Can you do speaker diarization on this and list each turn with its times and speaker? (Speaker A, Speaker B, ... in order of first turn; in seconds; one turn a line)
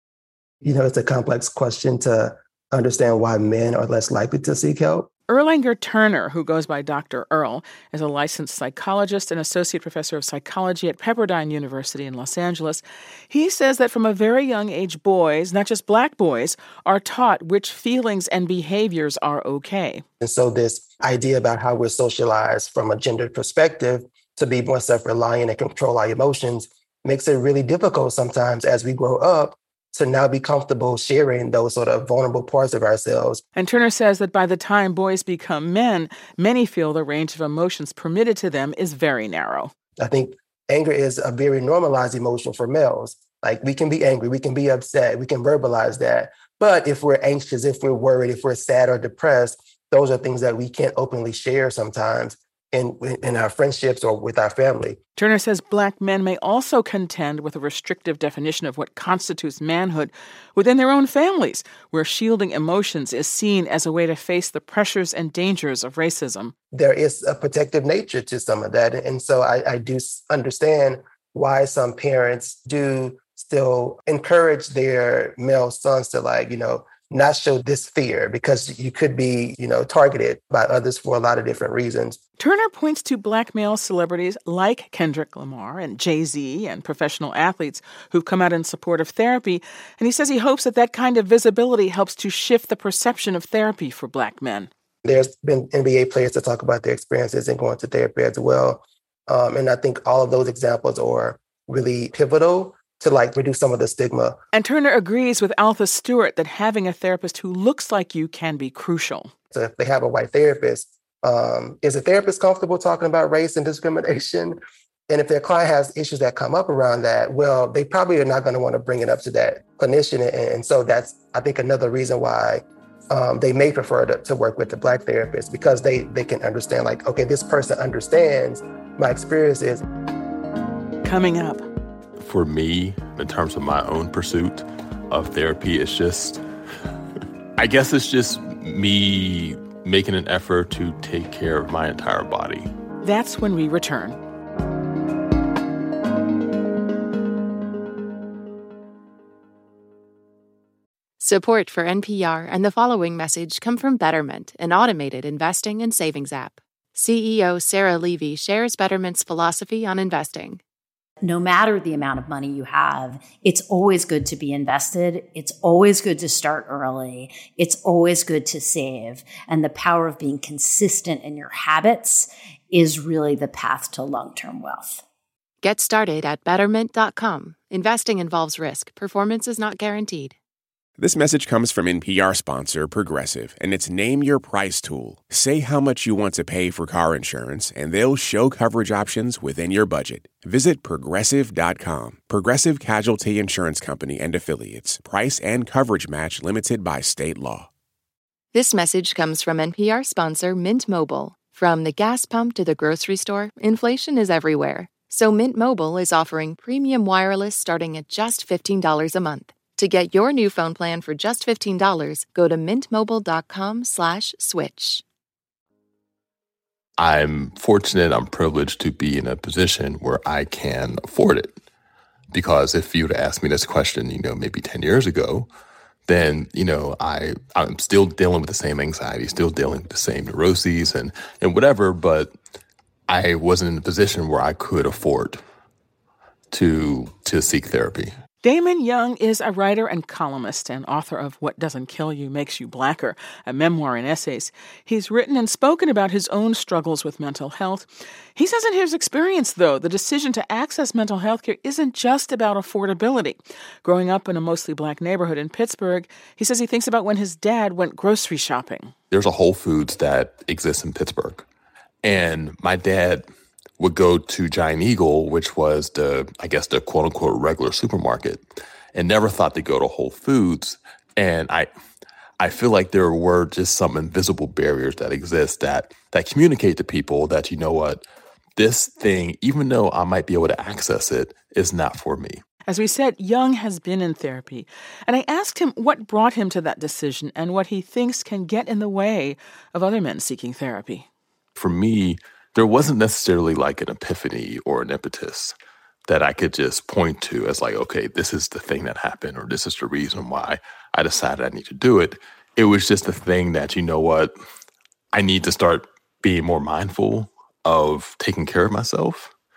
Speaker A: 0.6-5.1
Speaker B: 5.3-20.0
Speaker A: 20.2-33.4
Speaker B: 33.5-39.7
Speaker A: 40.0-55.0
Speaker B: 55.1-66.5
Speaker A: 66.7-82.2
Speaker B: 82.4-94.7
Speaker A: 95.0-104.4
Speaker B: 104.5-109.3
Speaker A: 109.5-114.6
Speaker A: 115.1-129.8
Speaker B: 131.0-131.7
Speaker C: 132.2-136.4
Speaker C: 137.6-142.7
Speaker B: 143.0-144.2
Speaker D: 151.2-160.6
Speaker E: 161.2-175.0
Speaker D: 175.6-180.3
Speaker F: 181.0-197.7
Speaker D: 198.5-215.0
Speaker C: 217.0-221.6
Speaker C: 222.3-225.5
Speaker C: 226.1-232.3
Speaker C: 233.1-235.4
Speaker C: 236.5-238.1
Speaker B: 238.4-258.9
Speaker C: 259.1-261.4
Speaker C: 262.0-263.3
Speaker C: 263.8-271.7
Speaker C: 272.4-278.0
Speaker C: 278.6-282.4
Speaker B: 282.7-291.1
Speaker C: 291.6-295.6
Speaker C: 296.1-304.3
Speaker C: 305.1-309.3